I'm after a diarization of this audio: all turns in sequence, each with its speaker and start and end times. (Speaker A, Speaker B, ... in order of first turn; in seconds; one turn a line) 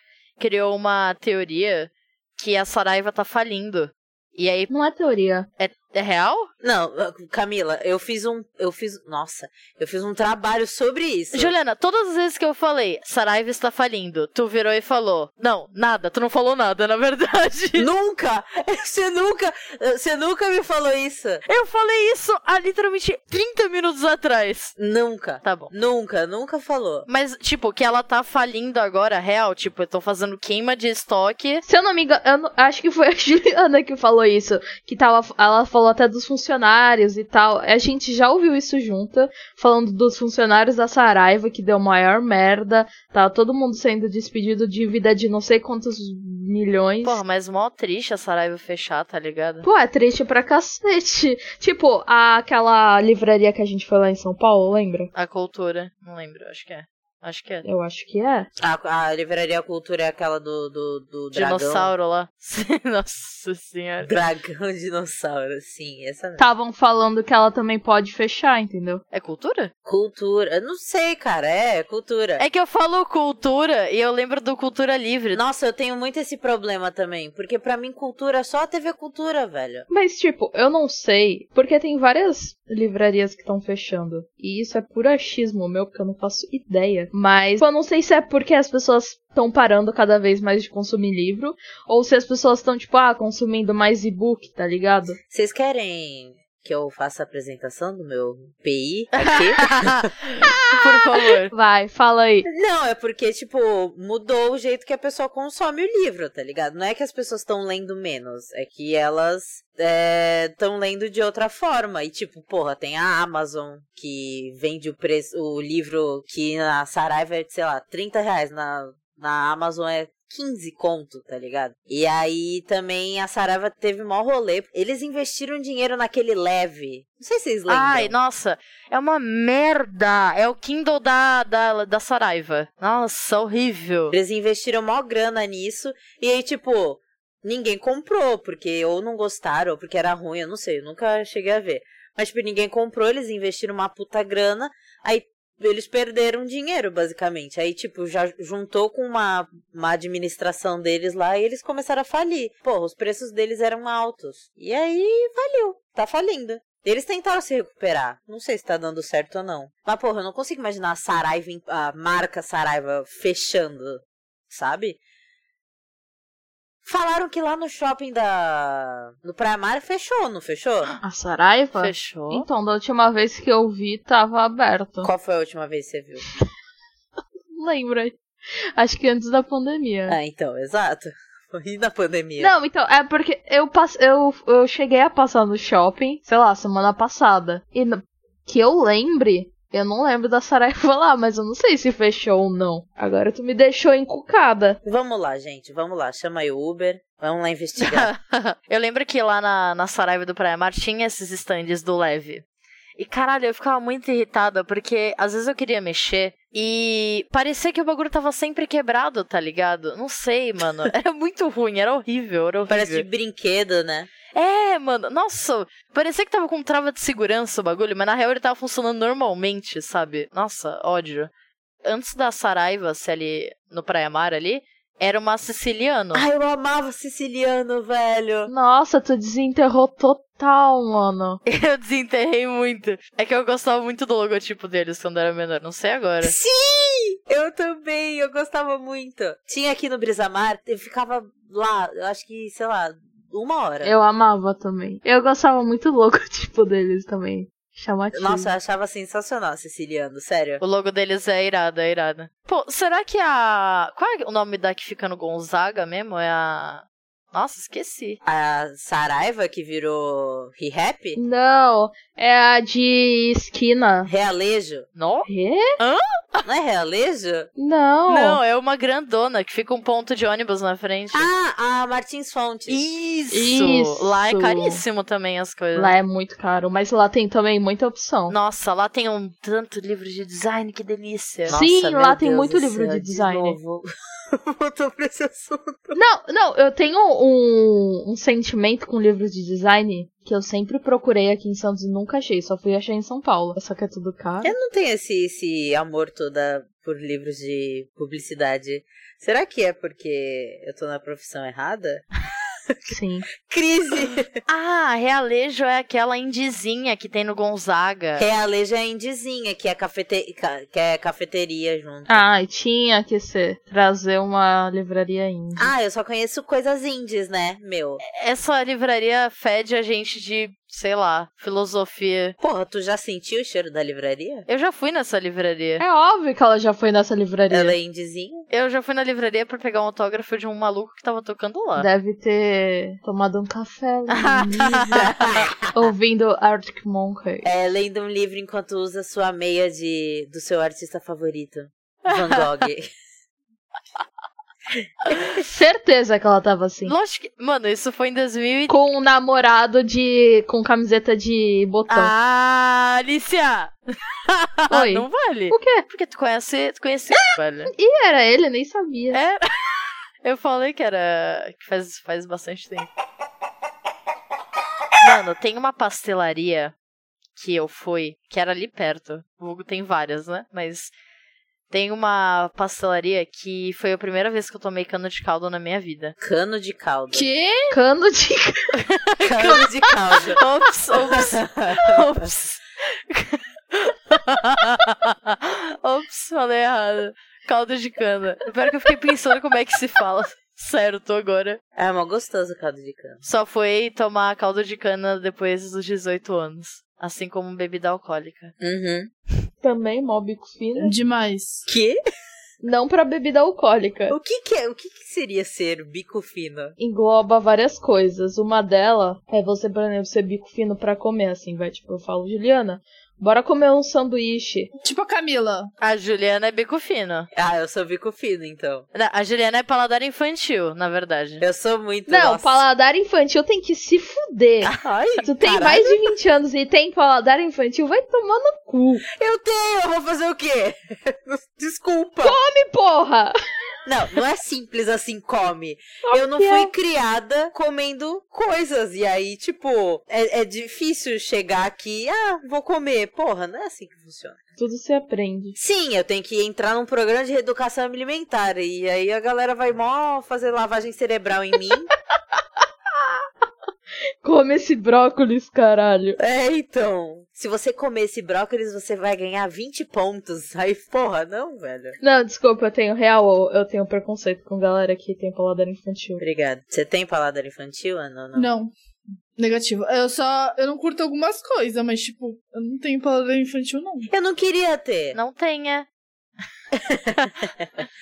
Speaker A: 0.4-4.7
Speaker B: 4.7-5.5
Speaker A: 5.6-6.5
Speaker C: 6.6-11.5
Speaker A: 11.3-17.9
Speaker C: 17.8-21.4
Speaker A: 21.4-24.8
Speaker C: 24.8-27.1
Speaker A: 25.4-25.7
Speaker A: 27.1-31.6
Speaker B: 31.6-47.2
Speaker A: 47.0-49.6
Speaker B: 49.6-55.1
Speaker A: 55.1-57.6
Speaker B: 57.6-58.5
Speaker C: 58.6-61.9
Speaker A: 61.3-64.1
Speaker C: 64.0-66.5
Speaker B: 66.4-69.0
Speaker A: 69.1-69.7
Speaker C: 69.8-72.4
Speaker A: 72.4-75.4
Speaker C: 75.3-79.9
Speaker B: 79.9-95.2
Speaker C: 95.3-100.0
Speaker A: 99.2-101.5
Speaker B: 101.5-102.5
Speaker C: 102.5-128.1
Speaker A: 127.7-134.2
Speaker C: 134.1-165.0
Speaker C: 166.8-170.9
Speaker B: 171.0-175.1
Speaker A: 171.8-172.4
Speaker C: 175.0-176.2
Speaker B: 177.5-178.2
Speaker B: 178.8-180.2
Speaker C: 180.1-182.5
Speaker B: 182.4-194.8
Speaker C: 194.8-198.1
Speaker A: 197.8-202.4
Speaker A: 203.0-213.0
Speaker C: 212.7-214.1
Speaker A: 214.3-221.3
Speaker A: 221.8-226.2
Speaker C: 226.1-228.5
Speaker B: 228.5-231.4
Speaker A: 231.4-236.3
Speaker C: 236.2-243.9
Speaker B: 243.8-248.5
Speaker C: 248.1-250.6
Speaker A: 250.6-258.2
Speaker C: 258.2-261.2
Speaker B: 261.1-264.1
Speaker C: 264.1-264.9
Speaker A: 264.9-265.3
Speaker B: 265.2-265.7
Speaker A: 265.8-266.4
Speaker C: 266.4-267.5
Speaker B: 267.6-268.4
Speaker A: 268.1-271.3
Speaker C: 271.1-272.8
Speaker A: 272.7-275.9
Speaker B: 273.3-274.8
Speaker B: 275.7-278.4
Speaker A: 278.3-281.6
Speaker C: 281.4-286.0
Speaker B: 281.5-283.6
Speaker B: 285.9-294.5
Speaker C: 294.4-302.0
Speaker B: 302.9-303.3
Speaker C: 303.4-304.4
Speaker A: 304.5-308.2
Speaker C: 308.2-312.2
Speaker B: 312.1-315.7
Speaker C: 315.6-318.0
Speaker A: 318.0-322.4
Speaker C: 322.4-324.4
Speaker A: 324.5-325.8
Speaker B: 325.8-327.8
Speaker C: 327.5-328.4
Speaker A: 328.5-331.9
Speaker B: 331.8-335.0
Speaker A: 334.1-335.0
Speaker C: 334.9-335.9
Speaker B: 335.7-337.5
Speaker C: 337.4-342.9
Speaker A: 342.1-342.5
Speaker A: 345.1-345.4
Speaker B: 345.4-346.9
Speaker A: 346.8-348.7
Speaker B: 348.7-352.1
Speaker A: 351.9-353.8
Speaker A: 354.3-357.7
Speaker B: 354.7-355.8
Speaker B: 357.7-359.2
Speaker A: 359.1-359.4
Speaker A: 360.2-362.9
Speaker A: 365.0-366.7
Speaker A: 367.4-370.9
Speaker A: 371.7-376.1
Speaker C: 376.2-377.2
Speaker D: 377.1-377.8
Speaker B: 377.7-378.8
Speaker A: 378.9-379.7
Speaker C: 379.2-380.4
Speaker A: 380.2-391.6
Speaker C: 381.0-382.3
Speaker C: 391.8-393.2
Speaker A: 393.2-398.5
Speaker C: 398.6-399.1
Speaker B: 399.6-400.9
Speaker D: 400.8-401.7
Speaker C: 401.7-402.0
Speaker B: 402.6-404.1
Speaker C: 404.1-406.7
Speaker B: 406.8-414.7
Speaker D: 414.8-415.7
Speaker A: 415.8-417.3
Speaker C: 417.3-418.8
Speaker A: 418.9-421.4
Speaker C: 421.4-422.6
Speaker B: 422.1-429.0
Speaker C: 424.6-426.0
Speaker C: 429.1-432.4
Speaker B: 432.2-433.3
Speaker C: 433.8-444.4
Speaker B: 436.0-436.7
Speaker B: 444.6-445.6
Speaker C: 445.6-451.9
Speaker B: 454.2-456.2
Speaker C: 456.2-462.0
Speaker B: 462.0-466.2
Speaker C: 466.2-468.5
Speaker D: 468.3-468.7
Speaker D: 469.4-474.1
Speaker C: 474.1-475.2
Speaker A: 475.1-475.9
Speaker C: 476.7-477.7